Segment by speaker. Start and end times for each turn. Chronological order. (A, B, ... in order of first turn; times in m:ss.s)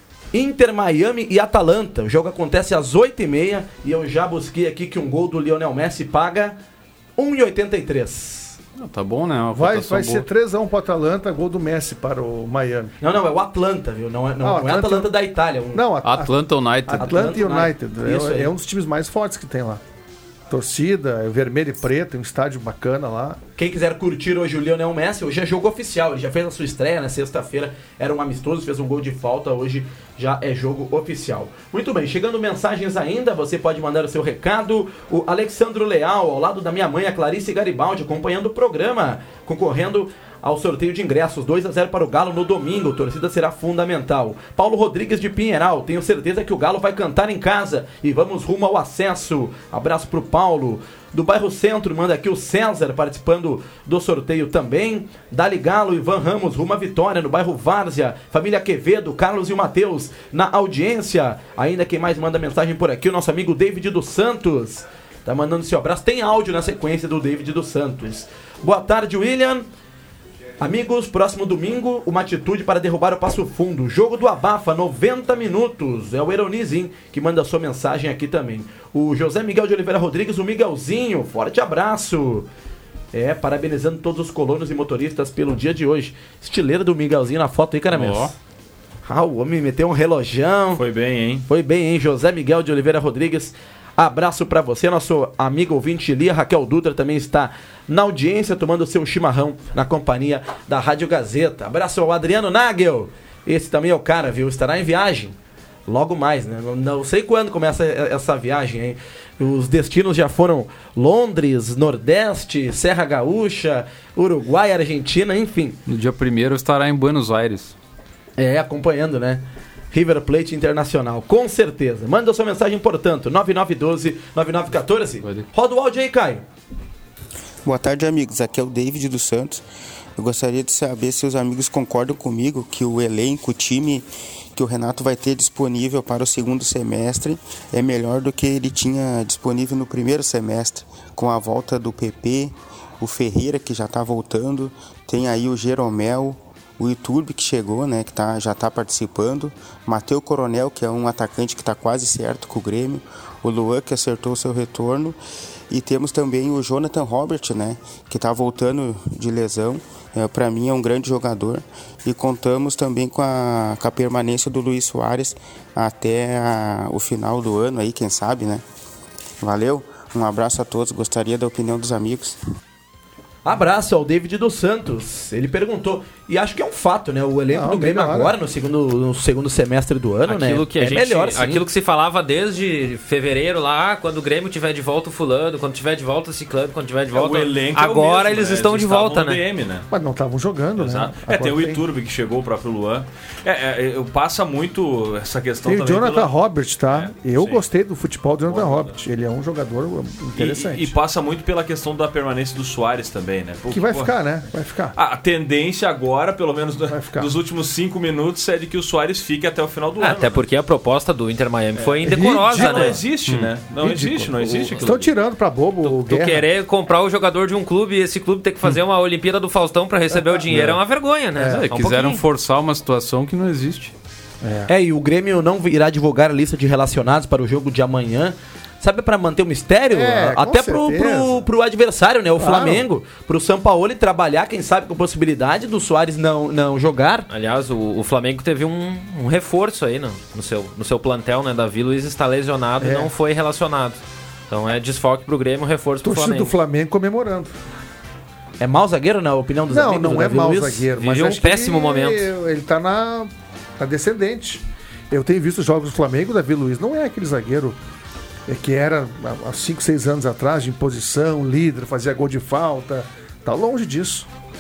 0:00.3-0:06.6 A
0:07.2-0:08.6 A
0:08.8-0:10.2 B
0:09.5-0:12.9 C
0:13.0-0:15.8 A
0:14.4-0:15.1 C
0:15.7-0:19.8 C
0:16.0-0:17.2 B
0:17.0-0:18.5 A
0:20.5-0:23.4 C
0:23.6-1:09.7 A
1:10.6-1:22.5 A
1:23.1-1:28.3 A
1:27.9-1:28.3 B
1:29.1-1:30.8 A
1:30.8-1:31.4 D
1:31.5-1:45.4 A
1:45.9-1:55.8 A
1:55.9-1:57.8 B
1:58.4-2:06.4 A
2:07.6-2:09.6 E
2:10.2-2:35.2 E
2:35.7-2:48.6 E
2:49.4-2:52.4 E
2:53.4-3:01.6 A
2:57.5-2:58.4 C
3:00.3-3:09.4 F
3:07.1-3:09.9 D
3:09.9-3:11.8 C
3:10.8-3:16.3 D
3:15.6-3:20.9 C
3:16.9-3:17.6 D
3:18.5-3:19.0 D
3:20.4-3:24.1 D
3:23.7-3:24.9 C
3:25.0-3:30.4 D
3:26.9-3:27.3 C
3:30.0-3:33.0 F
3:32.0-3:33.0 C
3:32.2-3:35.1 D
3:33.8-3:36.5 C
3:35.8-3:42.2 F
3:40.1-3:40.7 C
3:40.5-3:40.8 B
3:41.4-3:41.6 C
3:41.4-3:43.9 B
3:44.4-3:44.7 C
3:44.7-3:57.3 A
3:49.9-3:51.4 C
3:52.4-3:52.9 C
3:57.3-4:06.5 F
4:02.8-4:03.1 C
4:06.0-4:07.5 C
4:08.6-4:10.9 A
4:09.7-4:17.8 C
4:11.0-4:12.3 F
4:18.5-4:24.3 C